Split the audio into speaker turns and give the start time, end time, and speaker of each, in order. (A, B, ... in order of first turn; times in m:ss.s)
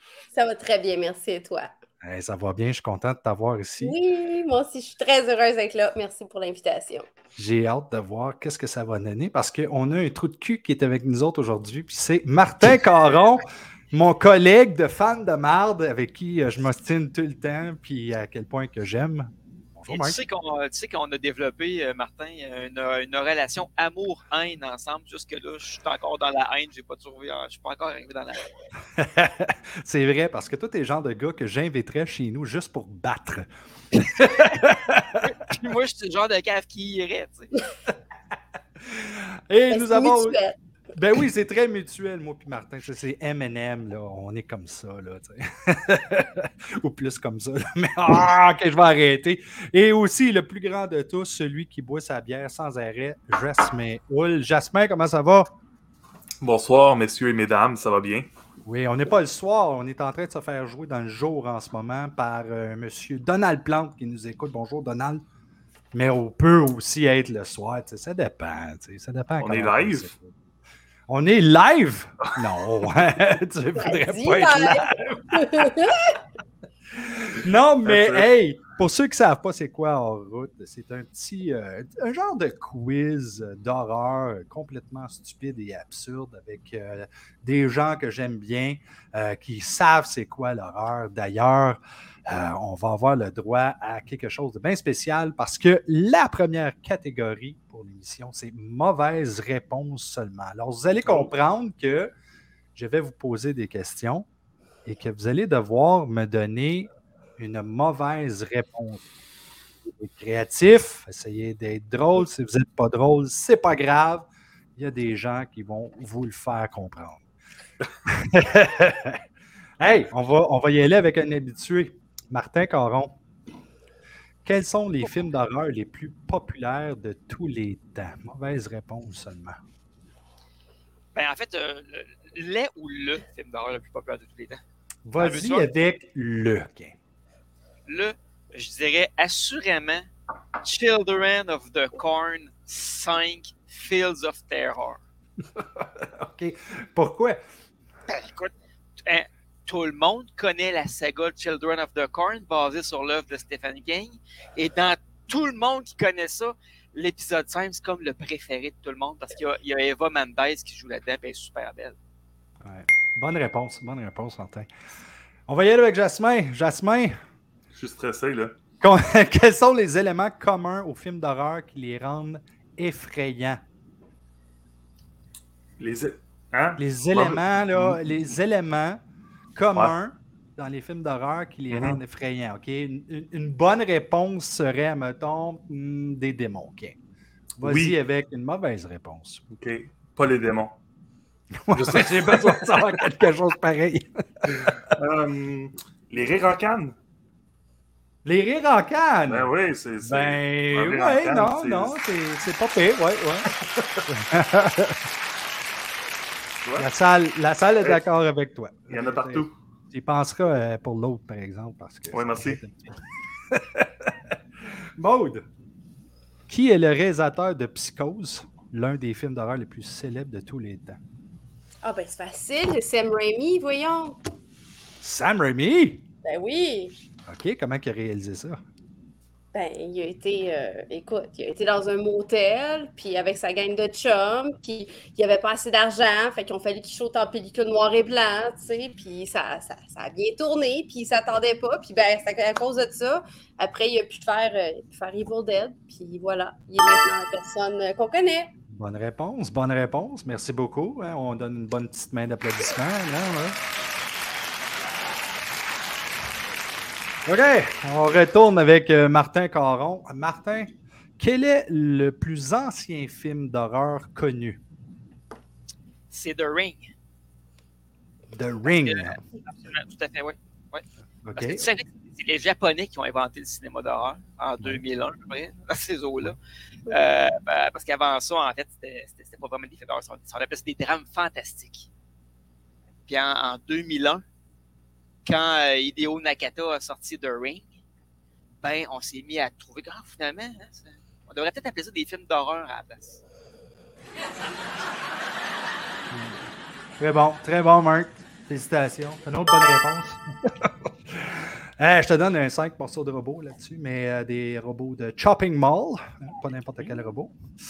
0:00.3-0:01.7 A
0:02.0-0:04.0 B
0:03.8-0:07.1 A
0:07.4-0:20.2 B
0:19.9-0:28.5 C
0:29.0-0:35.2 B
0:35.2-0:37.5 C
0:38.8-0:40.4 B
0:39.7-0:40.6 A
0:41.0-0:55.5 B
0:56.4-0:58.3 D
0:58.6-1:05.2 B
1:05.9-1:10.3 B
1:09.4-1:10.1 D
1:11.1-1:16.0 B
1:13.8-1:16.2 A
1:16.9-1:42.1 B
1:17.8-1:18.3 D
1:41.0-1:41.3 D
1:42.8-1:44.3 B
1:44.8-1:49.0 B
1:49.8-1:57.2 B
1:58.1-1:59.2 B
1:59.8-2:03.2 B
2:04.4-2:09.6 B
2:11.2-2:14.6 C
2:15.1-2:17.0 B
2:15.2-2:15.7 C
2:17.9-2:25.0 C
2:25.6-2:27.4 B
2:28.1-2:42.0 C
2:42.6-2:44.7 B
2:45.5-2:47.2 B
2:47.7-2:48.6 D
2:48.8-2:53.6 B
2:55.8-2:58.0 D
2:56.8-2:59.0 B
2:59.6-3:07.0 B
3:01.7-3:02.0 D
3:07.6-3:09.4 B
3:07.6-3:08.0 D
3:09.5-3:10.8 D
3:11.6-3:15.0 B
3:11.7-3:13.0 D
3:14.5-3:17.0 D
3:18.2-3:19.5 B
3:19.3-3:22.0 D
3:20.0-3:23.5 B
3:24.1-3:25.0 B
3:26.8-3:33.0 B
3:28.9-3:29.5 D
3:32.1-3:32.6 D
3:33.5-3:35.4 B
3:36.5-3:41.0 B
3:41.8-3:44.2 A
3:45.0-3:46.0 B
3:46.2-3:47.0 A
3:47.3-3:48.6 B
3:49.5-4:08.5 A
4:08.7-4:13.6 B
4:17.3-4:24.6 B
4:26.1-4:26.9 C
4:28.3-4:29.2 B
4:28.7-4:36.4 C
4:31.2-4:31.7 B
4:36.9-4:41.9 C
4:43.1-4:44.2 C
4:45.2-4:47.7 C
4:48.6-4:53.2 C
4:56.1-4:56.4 B
4:57.0-5:07.3 B